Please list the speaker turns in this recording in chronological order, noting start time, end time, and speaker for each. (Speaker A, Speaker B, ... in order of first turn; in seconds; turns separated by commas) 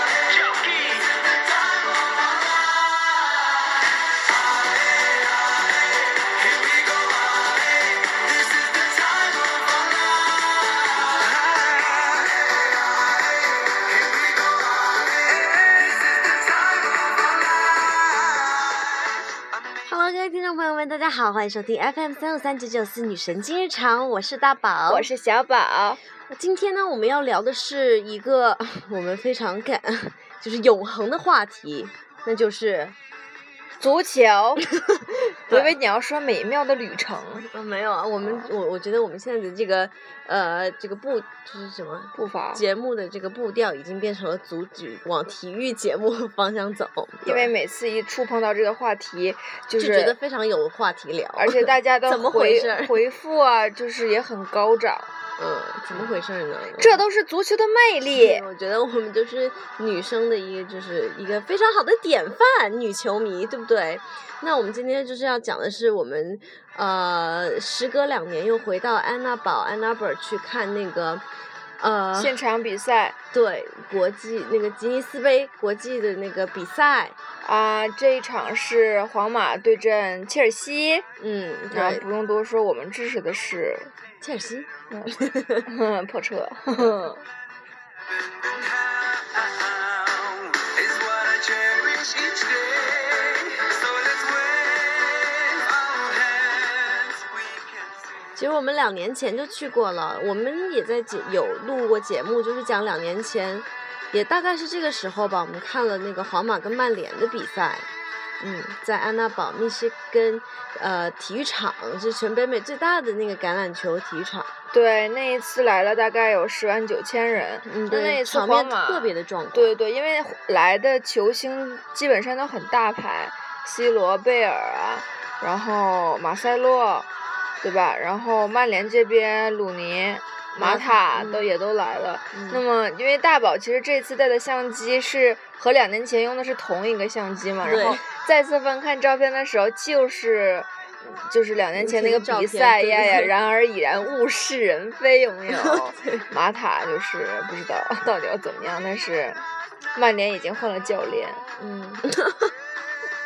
Speaker A: 0.2-1.3, Speaker A: 6.2-10.1, Speaker A: 11.3-12.2, Speaker A: 13.9-17.3, Speaker B: 19.9-25.1, Speaker C: 24.9-26.0, Speaker B: 26.3-33.0, Speaker C: 33.8-34.7, Speaker B: 34.7-35.7, Speaker C: 35.5-37.5, Speaker B: 37.5-47.5, Speaker C: 38.2-38.5, Speaker C: 42.1-42.6, Speaker C: 47.2-50.2, Speaker B: 49.8-53.0, Speaker C: 51.4-55.1, Speaker B: 55.4-57.0, Speaker C: 56.8-58.5, Speaker B: 58.1-71.2, Speaker B: 71.8-72.4, Speaker C: 72.1-73.2, Speaker B: 73.3-77.2, Speaker C: 77.4-81.0, Speaker B: 81.2-82.0, Speaker C: 81.7-83.9, Speaker B: 84.2-85.7, Speaker C: 84.9-87.2, Speaker A: 88.5-97.8, Speaker B: 98.4-107.9, Speaker B: 108.4-114.5, Speaker C: 114.7-127.1, Speaker B: 117.6-119.8, Speaker C: 127.6-149.4, Speaker B: 130.6-131.4, Speaker B: 132.3-132.6, Speaker B: 137.6-138.1, Speaker B: 141.8-143.3, Speaker B: 145.5-146.2, Speaker C: 149.9-151.4, Speaker B: 151.6-152.5